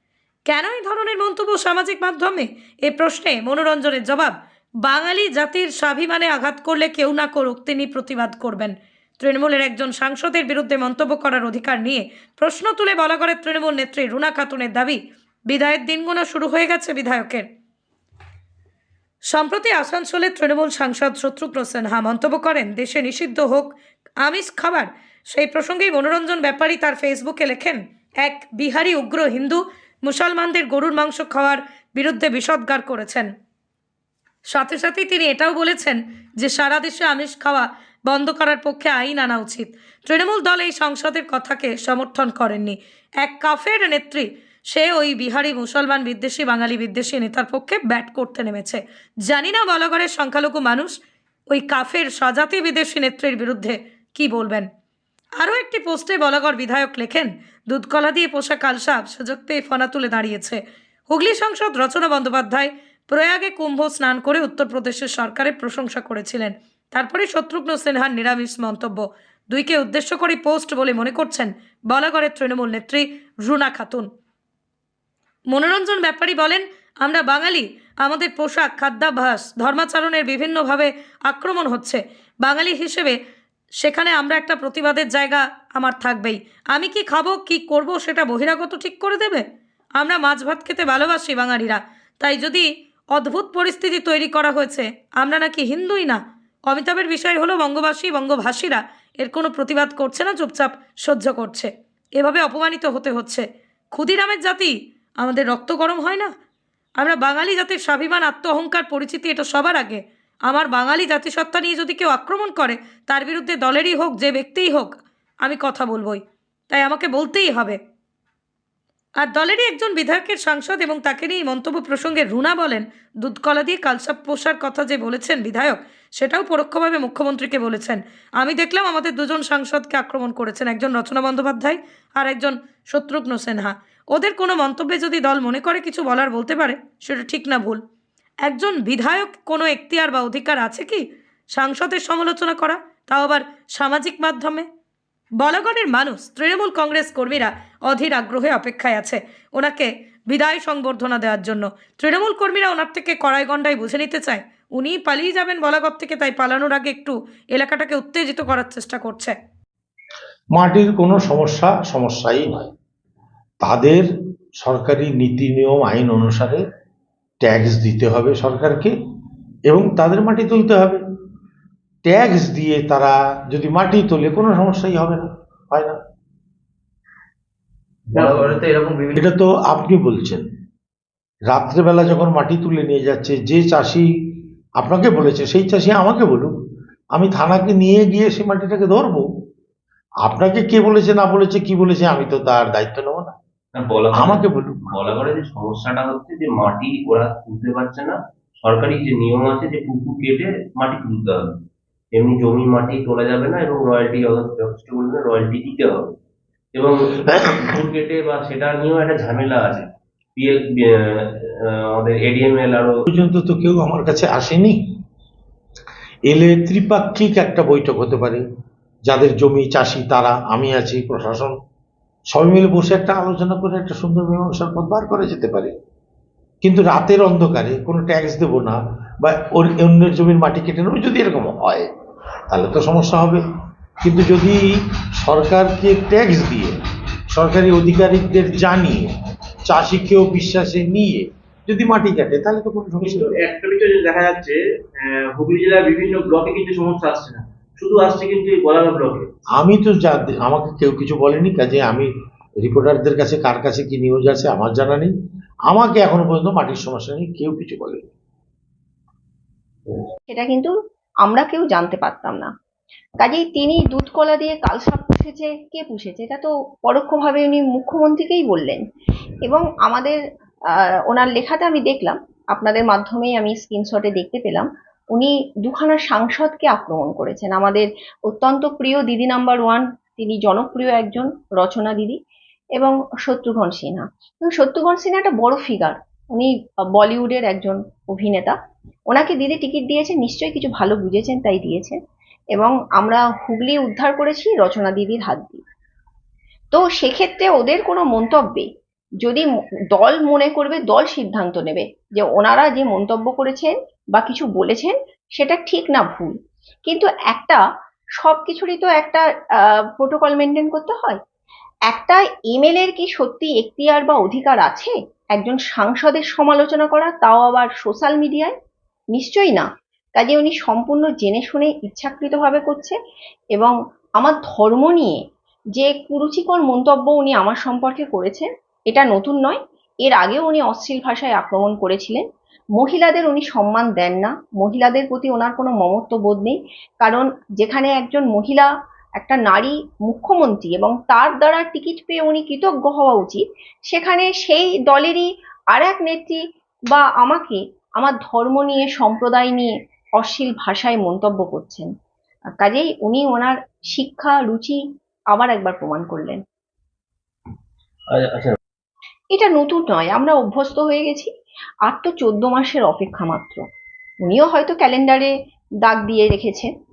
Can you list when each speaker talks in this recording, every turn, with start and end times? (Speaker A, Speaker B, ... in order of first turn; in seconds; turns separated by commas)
Speaker A: 0.5-17.4, Speaker A: 19.3-33.3, Speaker A: 34.5-51.0, Speaker A: 51.5-54.7, Speaker A: 55.4-74.1, Speaker A: 75.5-83.2, Speaker A: 83.8-89.5, Speaker A: 90.0-106.3, Speaker A: 107.0-117.8, Speaker A: 119.2-137.8, Speaker A: 138.4-144.7, Speaker A: 145.4-159.3, Speaker B: 160.6-162.7, Speaker B: 163.6-164.1, Speaker B: 164.6-166.6, Speaker B: 167.4-168.9, Speaker B: 169.7-171.0, Speaker B: 172.1-176.0, Speaker C: 178.2-179.2, Speaker B: 179.2-180.4, Speaker B: 181.5-184.1, Speaker B: 184.8-186.5, Speaker B: 187.2-189.3, Speaker B: 190.2-193.4, Speaker D: 193.8-201.6, Speaker B: 194.1-194.9, Speaker D: 202.1-206.2, Speaker D: 206.7-213.0, Speaker B: 207.3-207.5, Speaker B: 213.1-214.8, Speaker B: 216.3-218.4, Speaker B: 219.1-221.6, Speaker B: 222.3-225.7, Speaker B: 226.6-231.9, Speaker B: 232.5-233.4, Speaker B: 234.0-234.6, Speaker B: 235.2-236.8, Speaker B: 237.3-239.1, Speaker B: 239.7-243.4, Speaker C: 245.1-245.7, Speaker C: 246.7-247.4, Speaker D: 247.9-248.9, Speaker B: 249.6-255.1, Speaker B: 255.7-258.1, Speaker E: 260.3-260.7, Speaker E: 261.2-262.5, Speaker E: 263.2-268.8, Speaker E: 269.4-270.2, Speaker E: 271.1-282.2, Speaker E: 282.8-288.6, Speaker E: 289.1-292.0, Speaker E: 292.5-295.6, Speaker E: 296.7-298.7, Speaker E: 299.2-307.6, Speaker E: 308.2-311.2, Speaker E: 311.9-318.5, Speaker E: 319.1-323.0, Speaker E: 323.6-325.2, Speaker E: 325.8-332.2, Speaker E: 332.8-351.9, Speaker E: 352.6-354.8, Speaker E: 355.3-356.4, Speaker D: 358.1-358.6, Speaker E: 359.3-361.3, Speaker E: 361.9-363.6, Speaker E: 364.2-365.3, Speaker E: 365.8-366.7